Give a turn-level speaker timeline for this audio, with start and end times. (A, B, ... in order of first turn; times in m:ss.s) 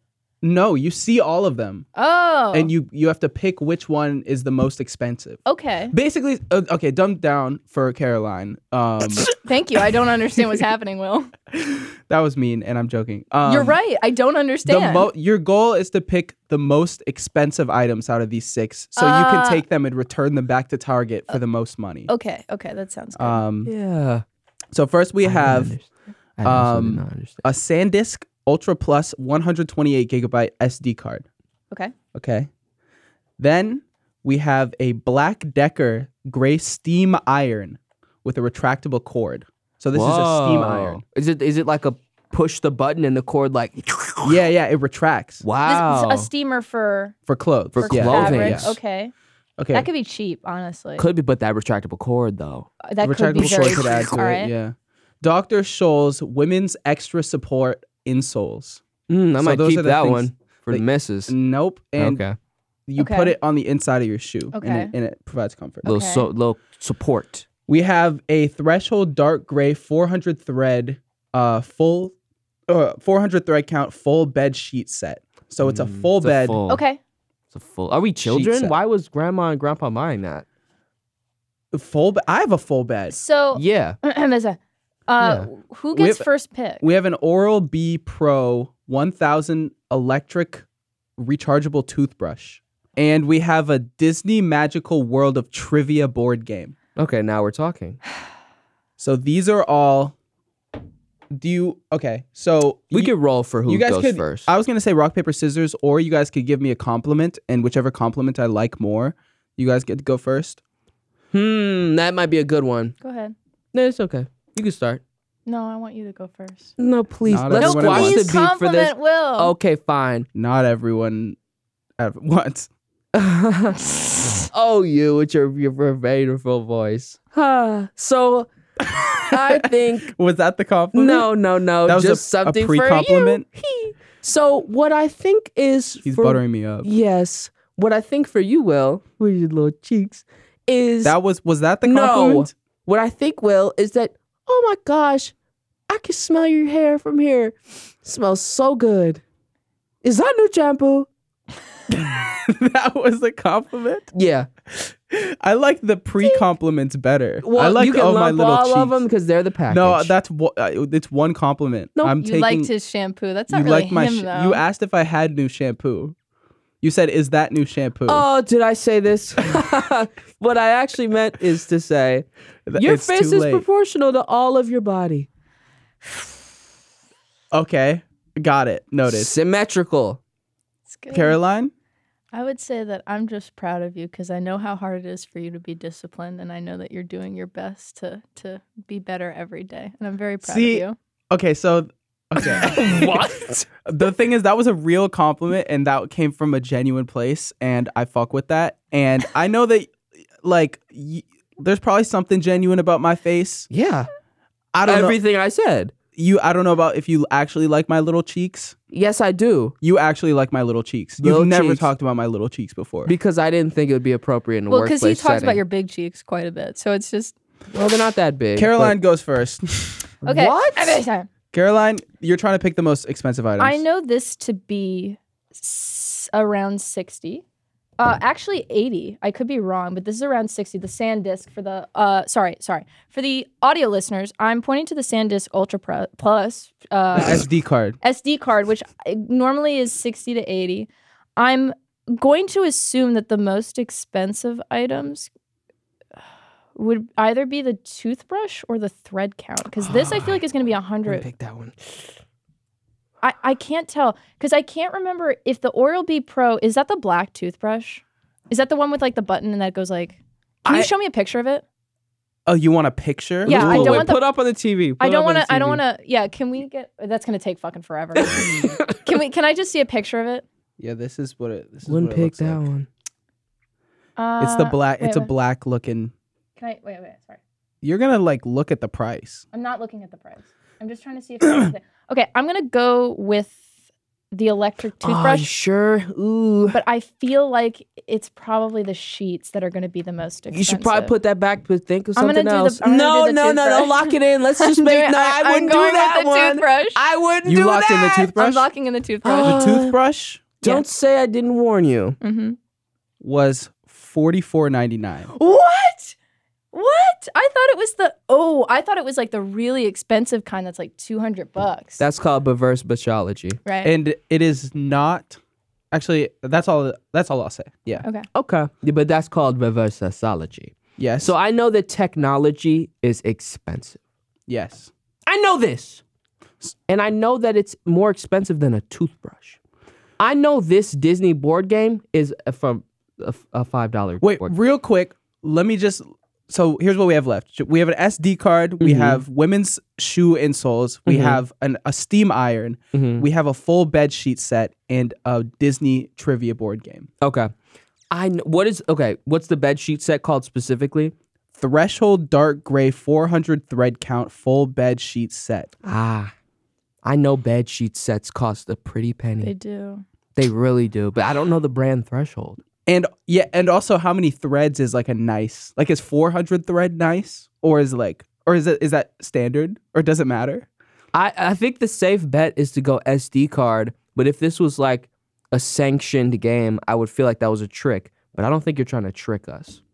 0:00.4-0:01.8 A
0:02.0-0:02.7 B
0:02.5-0:05.4 A
0:05.5-0:05.9 B
0:05.9-0:09.3 A
0:09.2-0:11.3 B
0:11.5-0:13.8 A
0:13.4-0:15.1 B
0:14.6-0:22.1 A
0:19.0-0:19.6 B
0:22.1-0:23.4 B
0:23.2-0:23.7 A
0:23.7-0:24.2 C
0:24.7-0:25.8 A
0:25.2-0:27.4 C
0:26.4-0:31.3 A
0:32.1-0:32.5 A
0:33.4-0:41.0 A
0:39.9-0:44.4 C
0:44.2-0:45.4 A
0:45.4-0:46.3 C
0:45.7-0:47.2 B
0:47.3-0:48.7 A
0:47.8-0:48.8 C
0:47.8-0:49.1 B
0:49.6-0:49.9 A
0:49.7-0:51.1 B
0:51.0-0:52.7 C
0:52.8-0:54.5 B
0:53.0-0:58.8 A
0:53.4-0:54.1 C
0:59.1-1:01.3 C
0:59.4-1:02.2 A
1:02.0-1:02.4 C
1:02.9-1:05.9 A
1:03.0-1:03.4 B
1:04.5-1:04.9 B
1:05.8-1:06.3 B
1:05.8-1:07.4 C
1:07.7-1:12.1 A
1:12.7-1:16.6 A
1:15.6-1:16.8 C
1:16.7-1:17.0 B
1:17.5-1:20.5 C
1:18.2-1:18.8 A
1:21.7-1:23.2 A
1:23.1-1:26.8 B
1:23.5-1:24.0 C
1:25.2-1:25.5 C
1:25.9-1:26.3 A
1:26.8-1:30.6 A
1:31.2-1:36.8 A
1:37.0-1:38.0 C
1:39.0-1:40.2 A
1:41.3-1:43.1 A
1:42.9-1:44.5 C
1:43.7-1:50.6 A
1:51.3-1:53.0 C
1:53.0-1:53.4 B
1:53.7-1:55.0 C
1:55.5-1:56.8 B
1:56.8-2:00.3 C
1:57.3-1:58.3 A
1:57.5-1:59.5 B
2:00.4-2:01.4 A
2:02.0-2:02.7 A
2:03.1-2:08.5 C
2:08.8-2:11.3 A
2:09.3-2:10.1 C
2:10.9-2:21.2 C
2:11.8-2:13.4 A
2:16.0-2:16.9 A
2:21.0-2:22.5 A
2:21.8-2:25.3 C
2:25.9-2:29.2 C
2:30.0-2:31.1 C
2:31.9-2:34.1 A
2:34.1-2:34.5 C
2:34.7-2:39.0 A
2:37.4-2:40.1 C
2:39.7-2:42.7 A
2:42.2-2:44.6 B
2:43.5-2:46.2 A
2:46.8-2:48.2 A
2:48.1-2:52.3 C
2:52.7-2:53.7 A
2:52.8-2:55.3 C
2:57.5-2:59.3 A
2:59.1-3:00.2 C
3:00.9-3:01.4 B
3:01.1-3:01.7 A
3:02.3-3:11.0 B
3:10.4-3:13.3 A
3:12.4-3:13.7 C
3:13.8-3:23.7 A
3:23.7-3:24.1 C
3:24.7-3:25.2 A
3:24.9-3:25.9 C
3:26.2-3:28.8 A
3:28.9-3:29.8 C
3:29.8-3:33.1 A
3:31.2-3:31.9 C
3:33.1-3:35.6 C
3:34.7-3:37.3 B
3:37.7-3:39.0 C
3:38.6-3:40.1 A
3:40.2-3:41.0 C
3:40.2-3:41.3 B
3:41.5-3:43.8 A
3:43.6-3:47.4 B
3:48.0-3:57.5 B
3:57.1-3:58.0 A
3:58.0-4:05.3 B
4:06.8-4:11.3 B
4:09.9-4:10.4 C
4:11.1-4:12.2 C
4:13.2-4:21.6 B
4:22.5-4:24.1 A
4:23.5-4:24.2 B
4:23.5-4:25.8 C
4:25.0-4:30.4 B
4:28.2-4:29.0 C
4:30.8-4:32.7 A
4:31.9-4:32.9 C
4:34.2-4:35.3 B
4:34.4-4:36.1 A
4:36.6-4:37.4 B
4:37.8-4:39.4 A
4:39.5-4:43.6 B
4:41.4-4:41.7 A
4:44.3-4:45.5 B
4:45.0-4:46.8 C
4:46.7-4:51.1 B
4:50.5-4:57.8 C
4:52.2-4:57.0 B
4:57.5-4:58.7 A
4:57.7-4:59.6 B
4:59.2-5:00.0 C
4:59.4-5:00.5 A
5:00.6-5:02.2 C
5:02.2-5:02.6 B
5:03.2-5:05.3 A
5:05.3-5:06.2 B
5:06.7-5:12.0 B
5:12.0-5:13.6 C
5:13.6-5:13.9 B
5:13.8-5:15.4 A
5:15.9-5:18.0 A
5:18.3-5:24.0 C
5:21.0-5:21.3 A
5:24.5-5:24.9 A
5:25.3-5:26.0 C
5:26.9-5:29.6 C
5:30.2-5:34.5 C
5:34.2-5:47.1 A
5:38.8-5:39.2 C
5:41.1-5:41.4 C
5:42.9-5:43.2 C
5:47.2-5:47.5 C
5:48.1-5:51.1 C
5:51.6-5:55.7 A
5:55.8-5:56.3 C
5:57.0-5:59.5 C
5:59.4-6:00.0 B
6:00.4-6:02.6 C
6:02.9-6:10.7 A
6:11.1-6:19.8 C